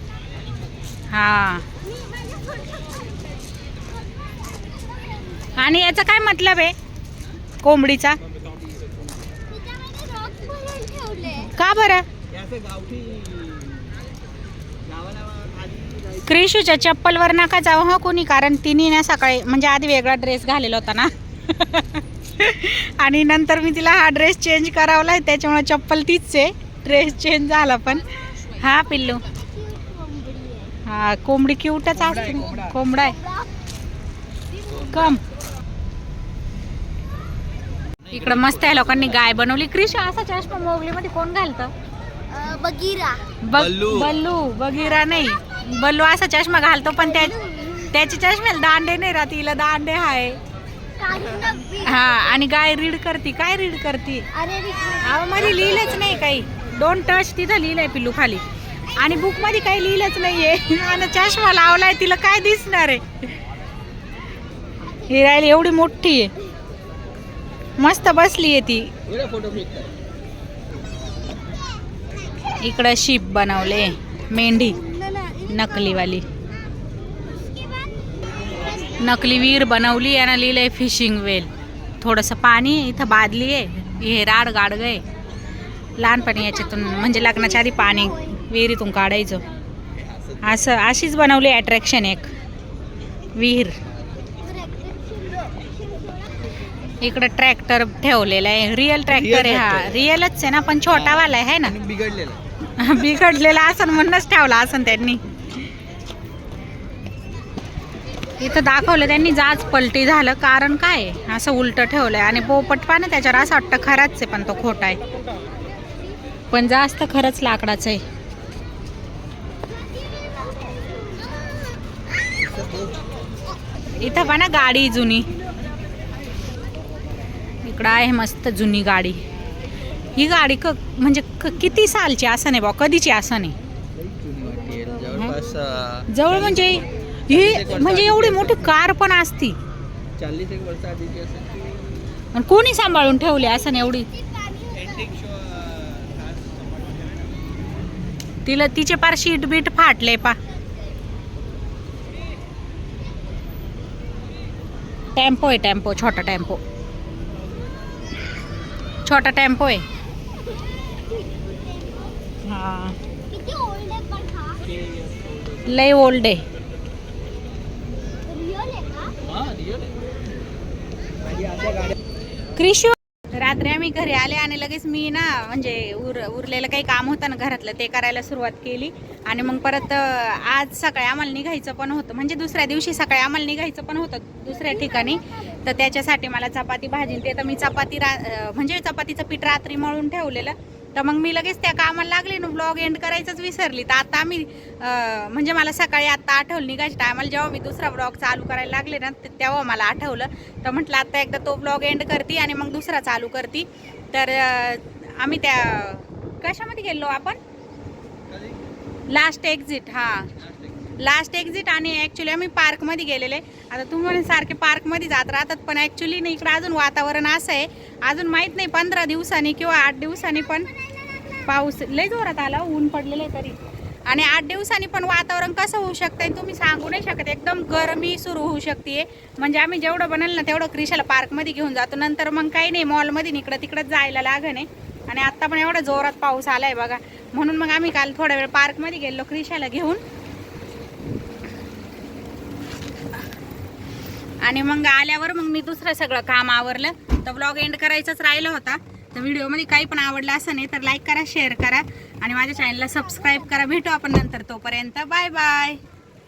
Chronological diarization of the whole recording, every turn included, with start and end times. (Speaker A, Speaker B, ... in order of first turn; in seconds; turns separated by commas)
Speaker A: 1.1-1.6, Speaker B: 1.8-3.2, Speaker B: 3.9-5.4, Speaker A: 5.5-6.7, Speaker A: 7.6-8.2, Speaker C: 8.5-8.9, Speaker B: 9.5-11.5, Speaker A: 11.4-12.1, Speaker C: 12.3-14.0, Speaker C: 14.9-16.4, Speaker A: 16.3-29.2, Speaker B: 29.4-30.8, Speaker A: 30.9-33.2, Speaker C: 31.9-32.8, Speaker B: 33.0-33.5, Speaker C: 34.6-35.2, Speaker A: 34.9-35.2, Speaker C: 38.0-39.3, Speaker A: 38.1-41.7, Speaker B: 42.3-43.2, Speaker A: 43.4-47.4, Speaker C: 43.5-44.2, Speaker B: 47.0-47.9, Speaker A: 47.9-50.4, Speaker B: 51.0-52.1, Speaker A: 51.8-54.3, Speaker B: 54.3-55.8, Speaker A: 55.0-58.4, Speaker A: 59.0-63.0, Speaker A: 65.1-66.3, Speaker A: 67.8-68.9, Speaker C: 69.1-69.9, Speaker A: 72.6-74.8, Speaker B: 74.8-75.9, Speaker A: 75.5-76.2, Speaker B: 77.6-79.0, Speaker A: 79.0-81.5, Speaker A: 82.0-85.0, Speaker A: 86.0-89.4, Speaker B: 86.7-88.3, Speaker C: 90.0-90.6, Speaker A: 90.4-92.3, Speaker A: 93.3-93.8, Speaker B: 94.4-96.5, Speaker A: 97.0-101.7, Speaker C: 99.1-100.0, Speaker C: 100.9-102.4, Speaker A: 102.8-105.2, Speaker A: 108.4-115.0, Speaker A: 116.5-118.0, Speaker A: 124.0-125.3, Speaker A: 127.6-129.2, Speaker A: 130.2-133.6, Speaker C: 134.0-138.8, Speaker A: 136.1-139.6, Speaker C: 140.2-141.8, Speaker A: 142.3-144.1, Speaker B: 144.4-144.8, Speaker C: 144.7-147.1, Speaker A: 148.4-150.4, Speaker A: 155.1-156.6, Speaker A: 159.1-159.8, Speaker B: 161.0-162.2, Speaker A: 162.4-163.0, Speaker B: 163.3-164.7, Speaker C: 164.7-165.8, Speaker A: 165.7-166.4, Speaker B: 168.3-169.2, Speaker C: 169.2-170.0, Speaker C: 171.2-171.9, Speaker A: 172.6-207.4, Speaker C: 208.3-208.6, Speaker A: 209.1-210.3, Speaker C: 210.4-210.9, Speaker A: 211.0-220.7, Speaker A: 221.5-240.0, Speaker A: 244.4-255.8